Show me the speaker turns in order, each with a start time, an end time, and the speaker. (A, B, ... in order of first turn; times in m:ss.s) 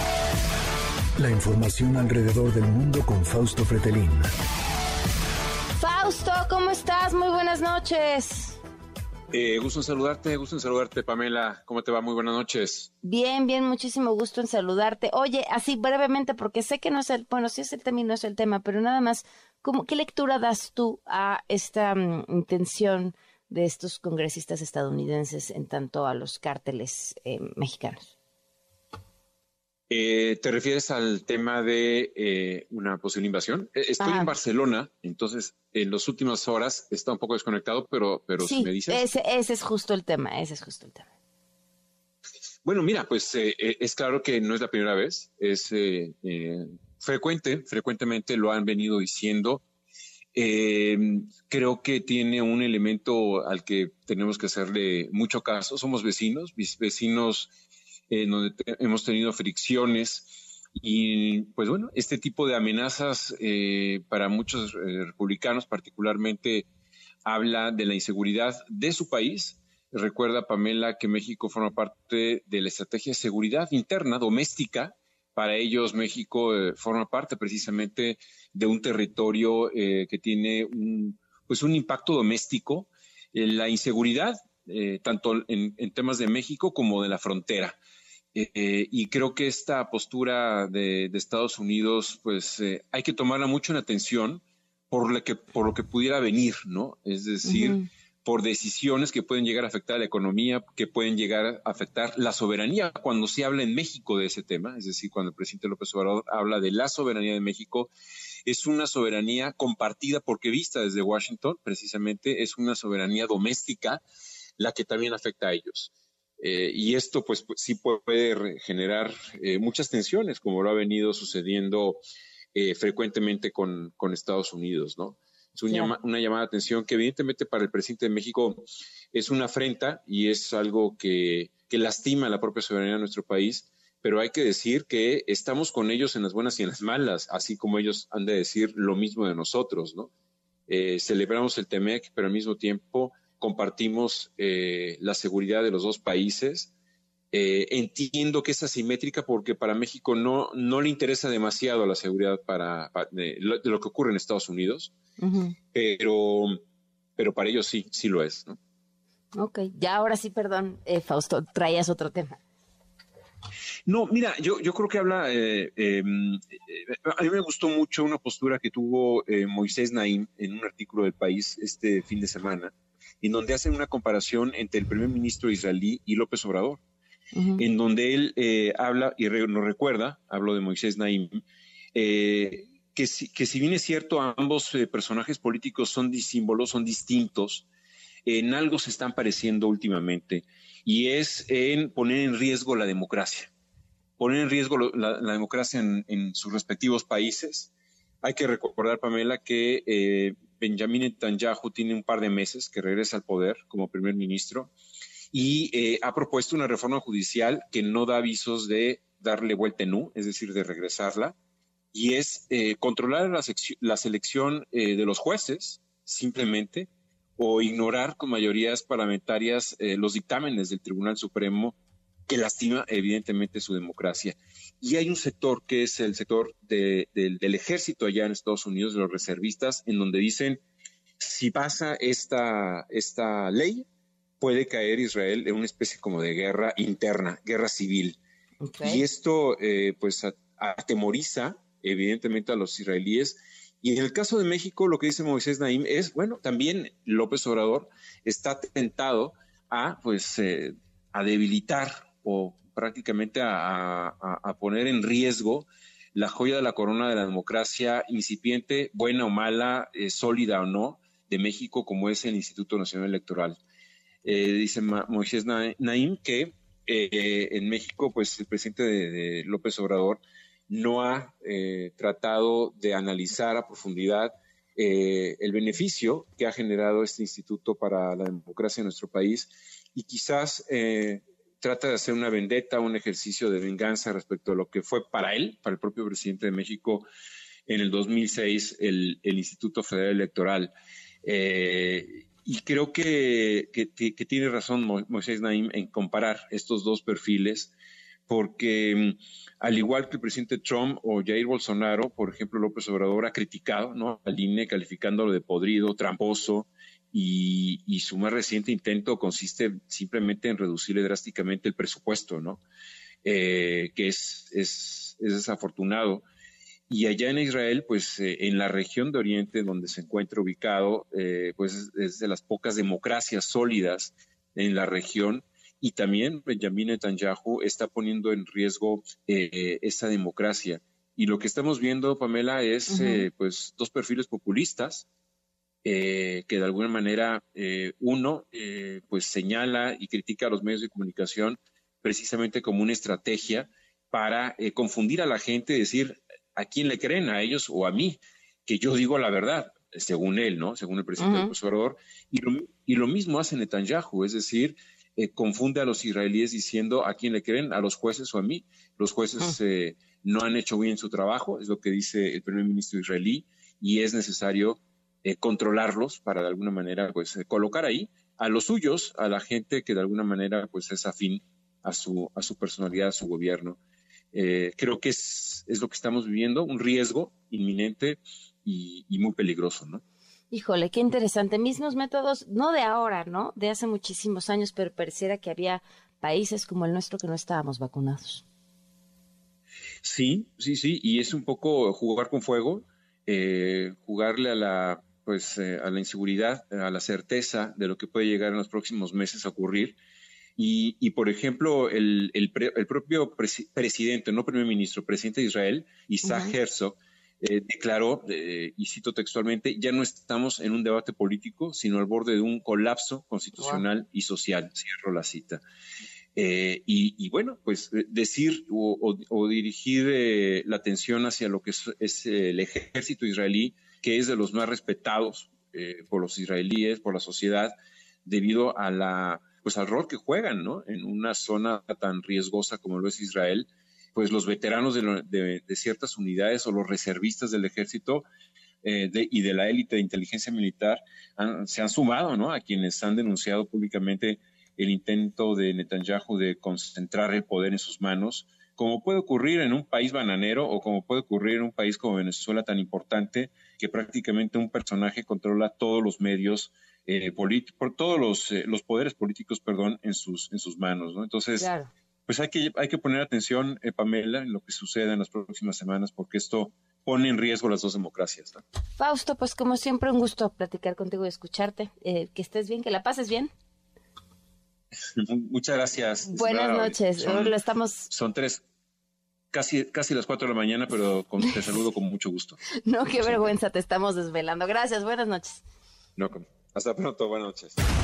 0:01.2-0:04.3 A
0:05.8-0:08.6 B
0:09.3-0:12.9 C
0:13.0-0:28.1 B
0:29.9-0:39.1 C
0:34.0-0:34.3 B
0:38.4-0:41.1 B
0:42.6-0:49.6 C
0:50.3-0:57.5 C
0:58.1-1:06.7 C
1:07.2-1:27.8 C
1:28.3-1:47.9 C
1:37.4-1:37.9 B
1:48.5-1:54.0 C
1:54.6-2:02.0 C
2:02.6-2:20.1 C
2:05.7-2:05.9 B
2:20.7-2:26.7 C
2:27.3-2:34.9 C
2:35.2-2:35.6 B
2:35.7-2:36.6 C
2:37.2-2:38.6 C
2:39.4-2:42.4 B
2:43.9-2:56.8 C
2:57.3-2:57.6 B
2:57.6-3:01.4 C
3:02.0-3:07.7 C
3:08.2-3:13.5 C
3:14.2-3:17.7 C
3:18.2-3:24.7 C
3:25.3-3:31.4 C
3:31.9-3:41.8 C
3:42.3-3:50.6 C
3:51.2-3:53.9 C
3:54.4-3:58.2 C
3:58.6-3:59.0 B
3:58.8-4:23.6 C
4:24.2-4:47.1 C
4:47.7-4:50.7 C
4:51.2-4:57.7 C
4:58.3-5:12.6 C
5:13.2-5:16.3 C
5:16.9-5:35.1 C
5:32.9-5:33.3 B
5:35.8-6:13.8 C
5:51.2-5:51.5 B
6:14.3-6:20.0 C
6:20.5-6:28.4 B
6:30.0-6:40.0 C
6:40.6-6:55.6 C
6:46.2-6:46.6 B
6:53.6-6:53.9 B
6:56.4-7:07.7 C
7:08.2-7:18.3 C
7:18.8-7:41.7 C
7:41.6-7:41.9 B
7:42.3-7:48.6 C
7:49.0-7:53.5 B
7:55.2-7:57.6 C
7:56.3-7:58.1 B
7:58.1-7:58.6 C
7:59.5-8:02.6 C
8:02.8-8:05.6 B
8:03.2-8:03.5 C
8:06.2-8:07.8 C